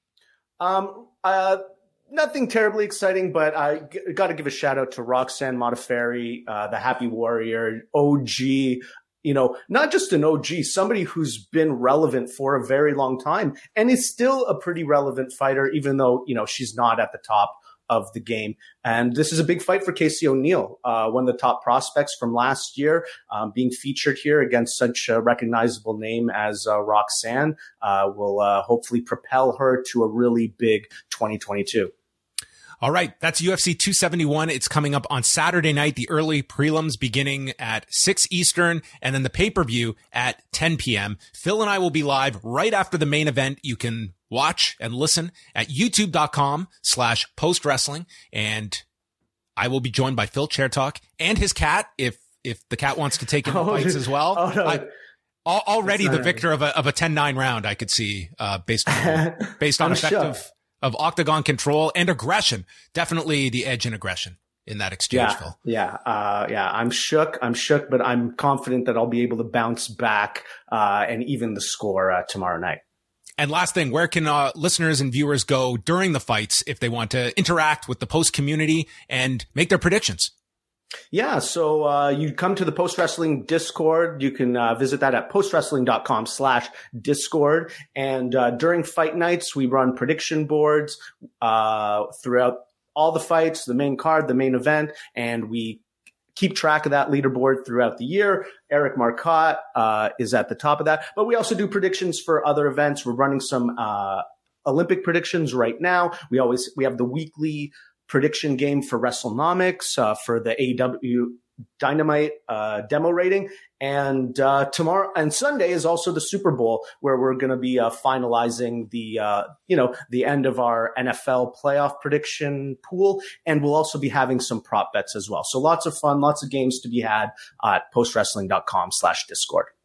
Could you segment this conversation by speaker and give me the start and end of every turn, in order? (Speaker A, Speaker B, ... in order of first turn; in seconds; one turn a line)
Speaker A: 0.6-31.9
Speaker B: 32.8-48.8
Speaker B: 49.5-54.8
Speaker A: 53.4-54.9
Speaker B: 55.5-65.5
Speaker A: 55.9-56.4
Speaker A: 59.0-60.3
Speaker A: 65.1-72.8
Speaker B: 73.4-80.3
Speaker A: 81.1-95.8
Speaker A: 96.3-129.7